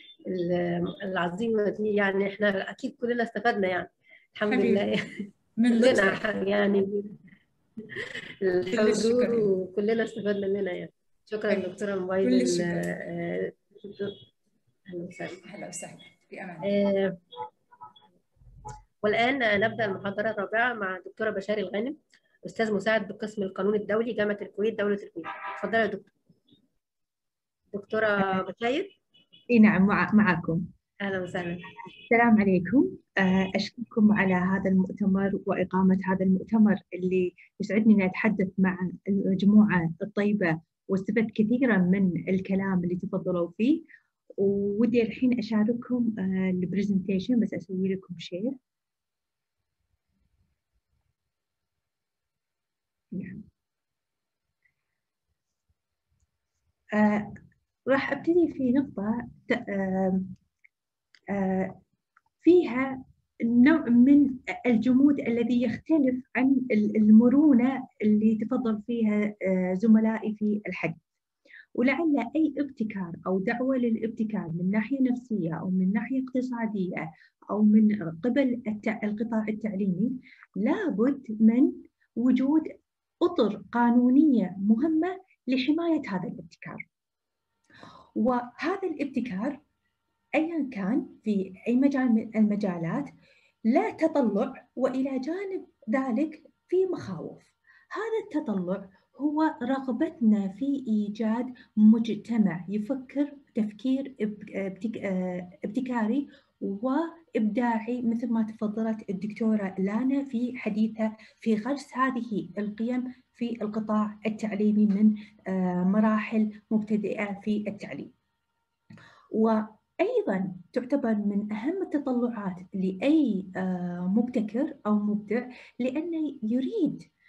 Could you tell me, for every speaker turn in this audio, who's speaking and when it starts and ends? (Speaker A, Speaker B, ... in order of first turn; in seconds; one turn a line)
Speaker A: 0.3-7.2
Speaker B: 4.5-4.9
Speaker B: 5.6-6.3
Speaker A: 7.8-14.2
Speaker B: 8.7-9.5
Speaker B: 11.5-13.1
Speaker A: 14.9-15.4
Speaker B: 15.4-16.7
Speaker A: 16.6-17.2
Speaker A: 19.0-26.1
Speaker A: 27.7-28.9
Speaker C: 29.5-30.7
Speaker A: 31.0-31.7
Speaker C: 32.1-43.8
Speaker C: 44.4-48.6
Speaker C: 53.1-53.5
Speaker C: 56.9-57.3
Speaker C: 57.9-60.4
Speaker C: 61.3-61.8
Speaker C: 62.4-71.0
Speaker C: 71.8-86.8
Speaker C: 88.2-89.6
Speaker C: 90.3-93.1
Speaker C: 93.7-118.1
Speaker C: 119.3-127.1